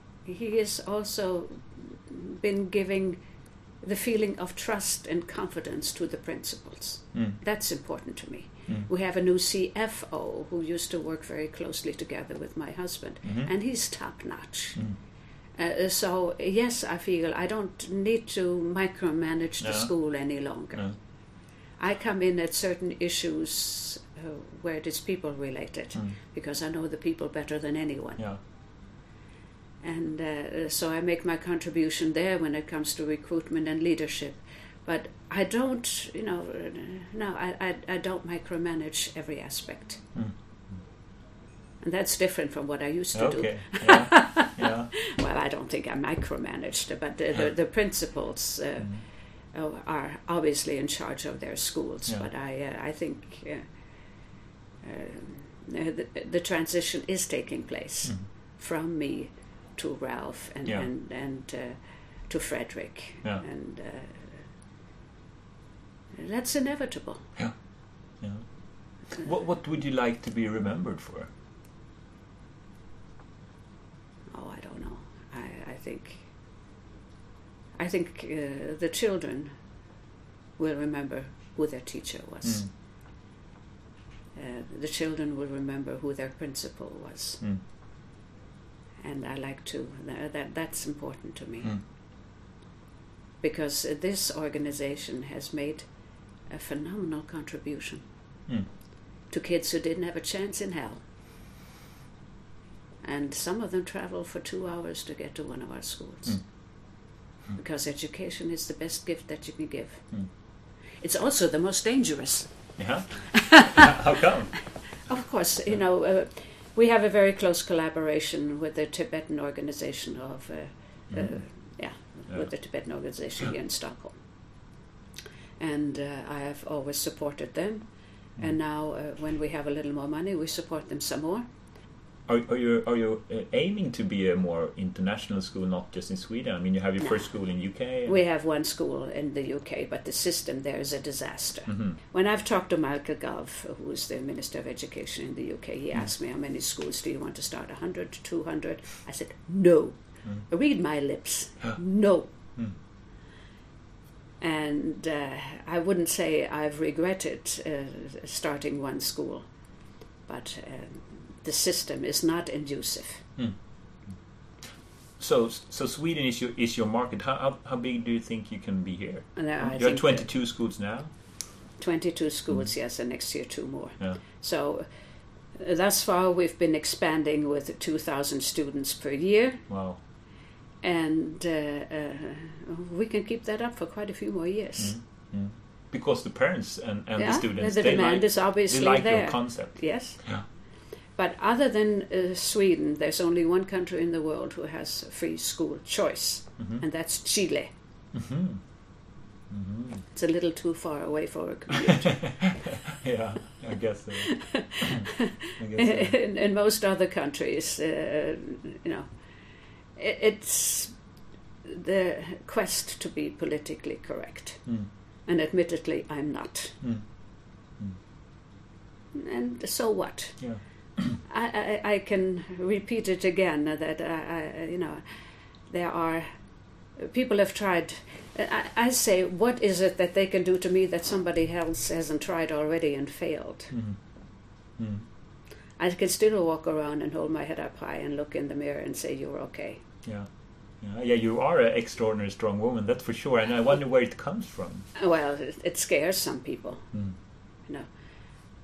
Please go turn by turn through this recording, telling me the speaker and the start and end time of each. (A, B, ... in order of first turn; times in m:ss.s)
0:00.3-0:03.2 A
0:03.8-0:14.8 A
0:13.2-0:13.5 B
0:15.6-0:20.9 A
0:19.6-0:19.9 B
0:21.8-0:28.2 A
0:29.8-0:40.0 A
0:41.8-0:48.9 A
0:43.1-0:44.9 B
0:49.5-0:53.7 A
0:54.8-1:04.4 A
1:06.2-1:07.3 A
1:09.2-1:11.3 B
1:14.3-1:16.3 A
1:17.8-1:19.5 A
1:20.6-1:22.7 A
1:24.4-1:27.4 A
1:29.0-1:31.8 A
1:33.4-1:35.9 A
1:36.5-1:38.0 A
1:39.3-1:41.0 A
1:43.0-1:46.4 A
1:47.6-1:50.0 A
1:51.0-1:52.5 A
1:52.8-1:54.6 B
1:53.3-1:54.0 A
1:55.1-2:04.2 A
2:05.6-2:11.4 A
2:12.3-2:18.2 B
2:18.1-2:32.4 A
2:34.4-2:39.5 A
2:40.3-2:43.3 A
2:45.2-2:51.1 B
2:49.4-2:50.3 A
2:51.8-2:54.9 A
2:55.6-2:59.6 A
2:59.7-3:00.0 B
3:00.8-3:05.0 A
3:04.8-3:10.4 B
3:07.2-3:10.2 A
3:11.2-3:17.7 A
3:18.1-3:18.6 B
3:19.5-3:20.0 B
3:20.1-3:22.3 A
3:21.8-3:26.2 B
3:24.2-3:29.1 A
3:30.0-3:30.9 A
3:31.6-3:34.6 A
3:35.3-3:36.8 A
3:39.1-3:40.4 A
3:40.4-3:41.2 B
3:41.2-3:45.0 A
3:45.7-3:46.3 A
3:47.0-3:53.7 A
3:53.7-3:54.0 B
3:54.8-3:55.0 B
3:55.8-3:59.8 A
4:00.8-4:04.9 B
4:05.0-4:06.9 A